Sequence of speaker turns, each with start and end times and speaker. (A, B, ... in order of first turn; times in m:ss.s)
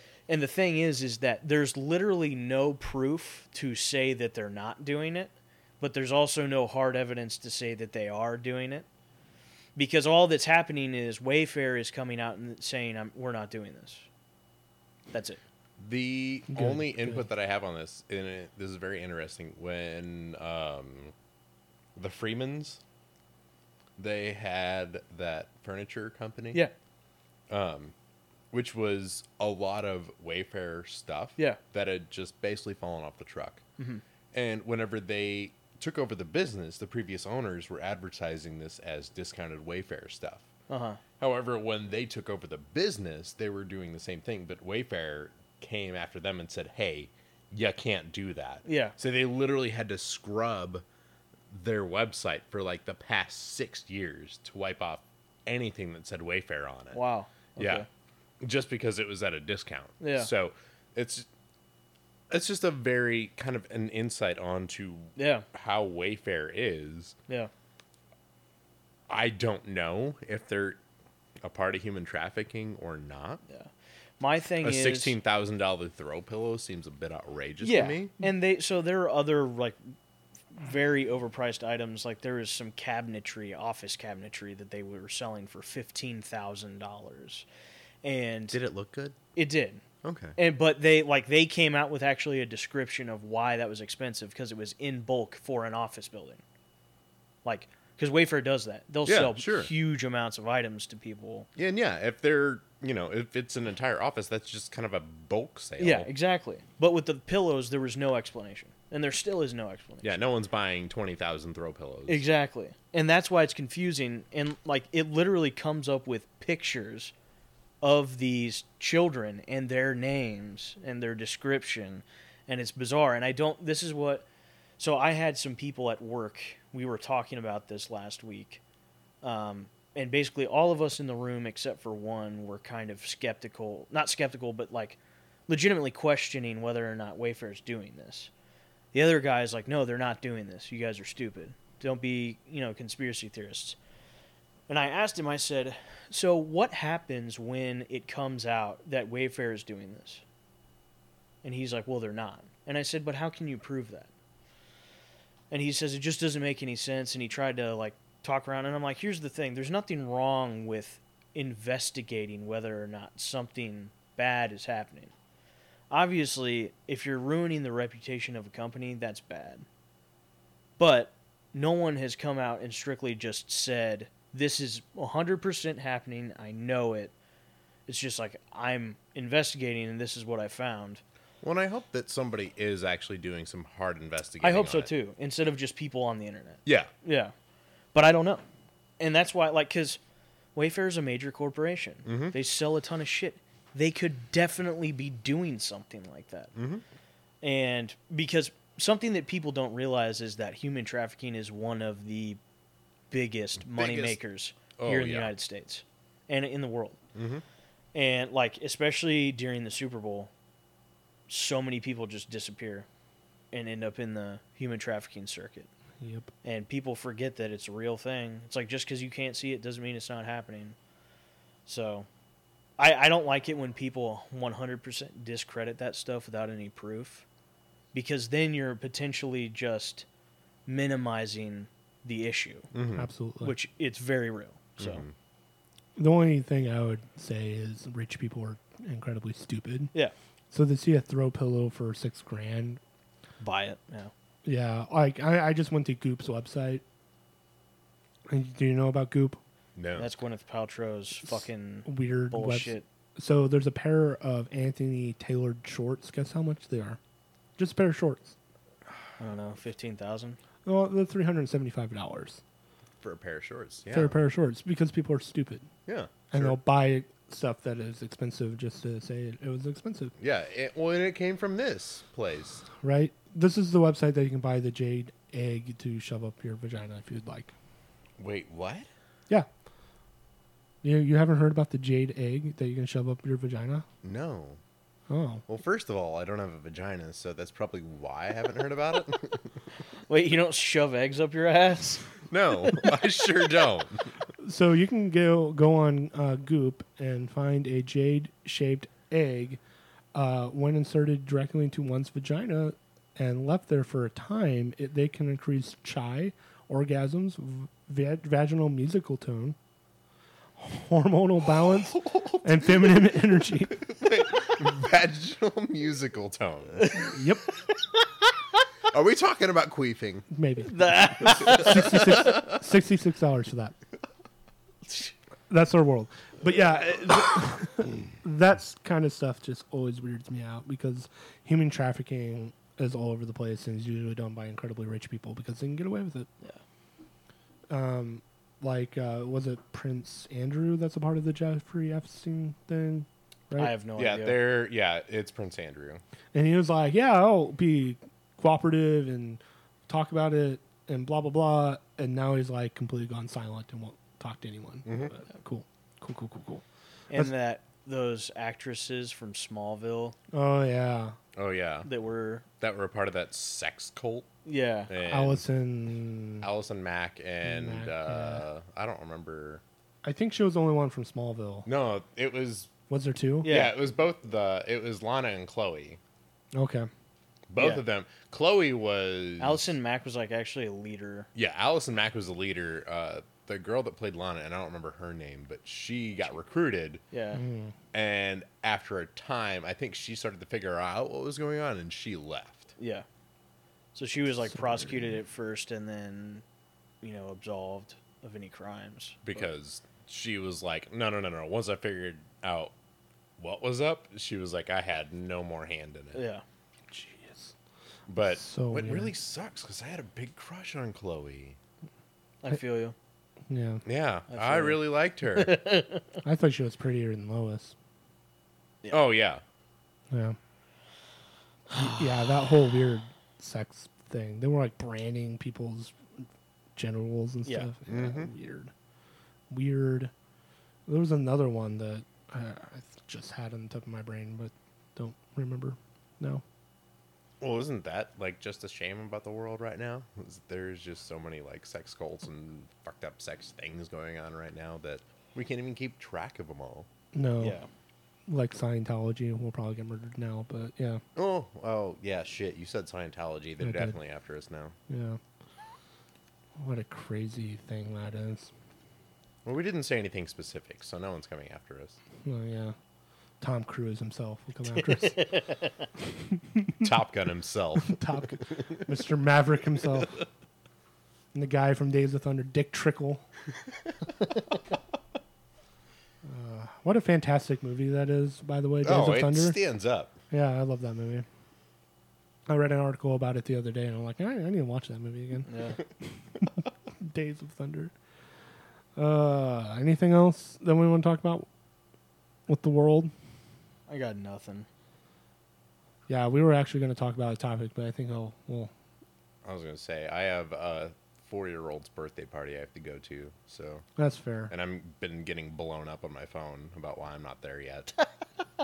0:00.3-0:08.8 A
0:09.8-0:14.0 A
0:15.1-0:15.4 A
0:15.8-0:21.1 B
0:16.5-0:17.2 C
0:22.0-0:22.8 B
0:24.0-0:26.6 B
0:27.5-0:27.9 B
0:28.5-0:33.6 B
0:34.3-0:40.5 B
0:40.7-0:41.0 A
0:41.2-0:50.8 B
0:48.6-0:49.0 A
0:51.5-0:57.0 B
0:56.9-0:57.9 A
0:57.6-0:57.8 B
0:58.4-1:01.3 B
1:00.0-1:00.3 A
1:02.3-1:07.2 B
1:05.2-1:05.4 A
1:09.1-1:10.8 B
1:11.4-1:13.4 B
1:13.5-1:15.1 A
1:14.6-1:18.1 B
1:17.6-1:19.8 A
1:20.5-1:27.4 A
1:28.0-1:28.6 A
1:28.5-1:29.2 B
1:29.4-1:29.8 A
1:30.0-1:30.4 B
1:30.4-1:36.4 A
1:37.4-1:41.5 A
1:39.0-1:39.7 B
1:41.6-1:46.1 B
1:45.8-1:50.2 A
1:50.0-1:52.2 B
1:52.1-1:57.1 A
1:57.8-2:04.2 A
2:04.8-2:08.6 A
2:09.2-2:18.3 A
2:18.9-2:23.8 A
2:24.7-2:30.2 A
2:31.4-2:34.1 A
2:35.5-2:45.1 A
2:45.9-2:49.6 A
2:50.8-2:57.1 A
2:57.9-3:01.0 A
3:01.4-3:04.9 B
3:04.4-3:07.3 A
3:06.6-3:06.9 B
3:07.9-3:08.4 A
3:09.0-3:10.0 A
3:10.5-3:16.5 A
3:12.0-3:12.3 B
3:16.5-3:16.8 B
3:17.4-3:22.4 A
3:23.1-3:27.0 A
3:23.6-3:24.2 B
3:24.8-3:25.3 B
3:27.1-3:27.4 B
3:27.9-3:30.3 A
3:31.3-3:32.9 A
3:33.5-3:35.7 A
3:36.0-3:36.3 C
3:36.4-3:40.8 A
3:41.6-3:42.1 A
3:42.8-3:47.2 A
3:47.9-3:50.0 A
3:50.6-3:52.7 A
3:52.7-3:53.1 B
3:53.0-3:53.5 C
3:53.4-3:55.0 A
3:54.8-3:55.1 B
3:56.0-3:59.9 C
4:00.5-4:02.8 C
4:03.4-4:04.1 A
4:04.4-4:06.8 C
4:08.3-4:09.4 C
4:09.8-4:10.1 B
4:10.0-4:12.8 A
4:11.2-4:17.0 C
4:17.6-4:18.4 C
4:19.2-4:20.4 A
4:20.6-4:22.4 C
4:23.0-4:24.2 B
4:23.9-4:25.7 C
4:25.8-4:26.6 B
4:26.3-4:30.1 C
4:30.2-4:32.6 B
4:32.8-4:37.5 C
4:38.2-4:38.9 B
4:40.8-4:43.8 C
4:44.0-4:44.6 B
4:45.1-4:45.4 C
4:45.5-4:49.5 B
4:50.1-4:52.1 A
4:52.3-4:54.1 B
4:54.4-4:59.6 C
5:00.1-5:09.6 C
5:10.6-5:13.9 C
5:11.5-5:13.1 B
5:13.8-5:16.9 B
5:16.8-5:17.1 A
5:17.1-5:17.5 C
5:18.8-5:20.3 B
5:20.3-5:23.8 C
5:20.7-5:22.3 A
5:21.4-5:21.8 B
5:24.9-5:25.1 A
5:25.5-5:36.3 C
5:37.7-5:43.7 C
5:43.6-5:44.4 A
5:44.0-5:46.0 B
5:46.3-5:57.3 C
5:54.8-5:55.1 B
5:57.1-6:00.2 A
6:00.3-6:01.2 C
6:01.4-6:01.9 B
6:01.8-6:02.4 A
6:02.6-6:04.3 B
6:04.4-6:04.9 A
6:04.9-6:05.4 B
6:05.0-6:06.5 C
6:06.4-6:09.6 B
6:07.4-6:08.4 C
6:10.0-6:11.7 C
6:11.6-6:12.7 B
6:12.9-6:13.5 C
6:13.4-6:13.7 A
6:13.4-6:16.0 B
6:16.5-6:16.9 C
6:17.5-6:19.8 B
6:17.6-6:17.8 A
6:19.4-6:21.3 A
6:21.3-6:27.0 B
6:27.1-6:27.4 A
6:27.3-6:27.7 C
6:27.9-6:32.7 B
6:32.8-6:33.0 A
6:33.9-6:36.4 A
6:37.0-6:39.2 A
6:39.2-6:42.7 B
6:43.4-6:46.2 B
6:46.1-6:46.4 A
6:46.9-6:47.5 C
6:48.1-6:51.6 B
6:48.3-6:49.1 C
6:52.4-6:52.9 A
6:53.5-6:53.8 C
6:53.8-6:55.6 B
6:54.3-6:56.2 A
6:56.2-6:57.7 C
6:58.9-6:59.4 B
7:00.1-7:00.4 C
7:01.7-7:06.0 C
7:06.8-7:08.7 C
7:07.9-7:08.3 B
7:09.5-7:10.1 C
7:10.9-7:16.4 C
7:17.4-7:26.9 B
7:27.1-7:27.6 C
7:27.4-7:27.7 A
7:28.3-7:31.0 C
7:31.2-7:34.7 B
7:33.6-7:34.0 C
7:34.9-7:35.2 C
7:36.6-7:38.5 C
7:39.4-7:42.0 B
7:42.2-7:42.8 C
7:43.4-7:45.2 C
7:44.8-7:45.9 A
7:46.4-7:46.8 C
7:46.8-7:48.2 B
7:47.8-7:50.2 C
7:51.3-7:53.2 C
7:56.2-7:59.6 C
7:58.8-8:00.2 B
8:00.3-8:01.2 C
8:02.5-8:05.5 C
8:05.5-8:05.8 A
8:06.4-8:07.9 C
8:09.0-8:11.5 C
8:12.5-8:13.1 C
8:13.9-8:14.7 A
8:16.1-8:18.7 C
8:19.4-8:23.8 B
8:24.0-8:24.5 C
8:24.5-8:27.9 B